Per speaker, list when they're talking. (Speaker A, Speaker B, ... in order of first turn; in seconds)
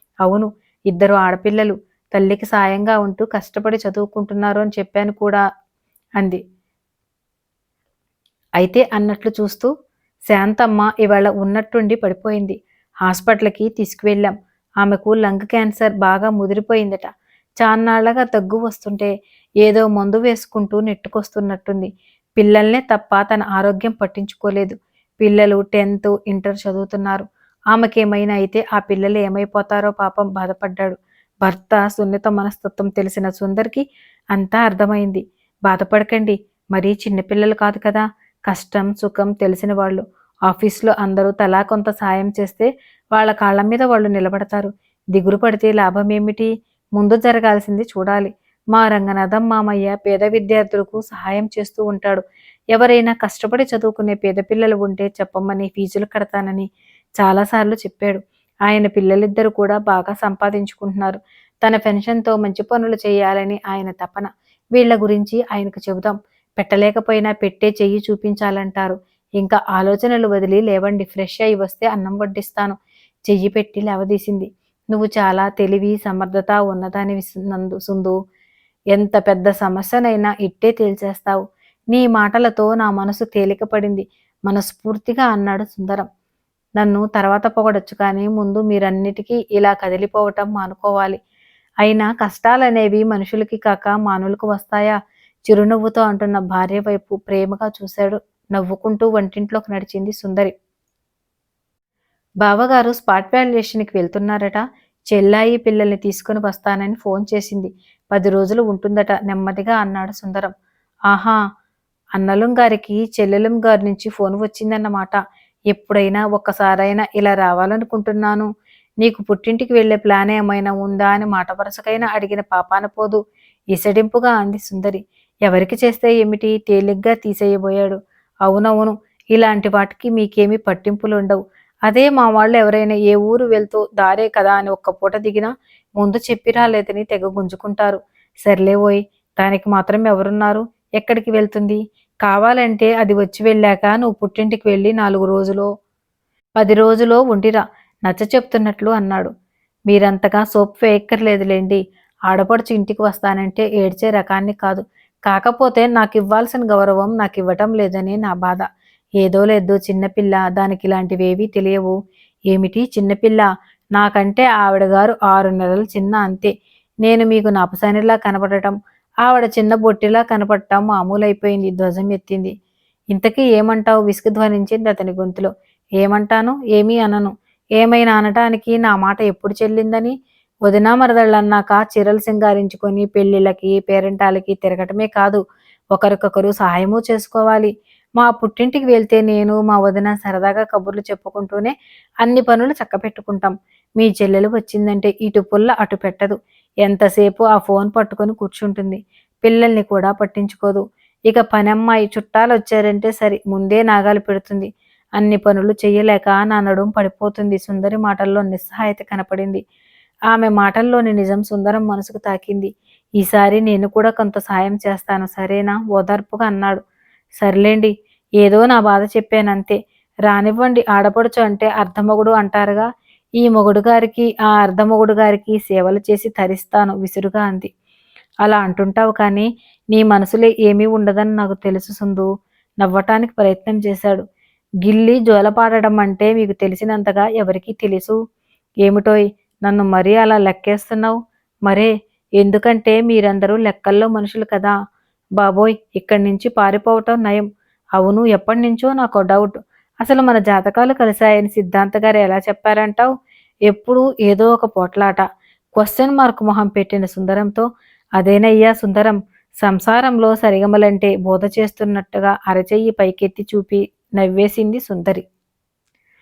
Speaker A: 0.2-5.4, 8.6-9.7, 10.3-12.6, 13.1-17.1, 17.6-19.1, 19.6-33.8, 34.3-52.2, 52.7-56.7, 57.2-72.8, 73.3-78.1, 78.9-81.4, 81.9-86.0, 86.8-91.2, 91.8-94.9, 95.5-100.5, 102.4-110.5, 111.1-111.4, 112.2-115.2, 115.7-118.5, 119.0-123.2, 123.7-145.7, 146.6-149.3, 149.9-158.6, 159.2-161.9, 162.5-166.5, 167.0-172.5, 173.1-180.1, 180.7-185.4, 185.9-191.7, 192.2-209.6, 210.3-216.8, 217.4-222.9, 223.4-227.7, 228.4-232.3, 232.8-234.2, 234.8-238.2, 238.8-244.7, 245.4-253.1, 253.7-255.2, 255.8-257.6, 258.2-265.2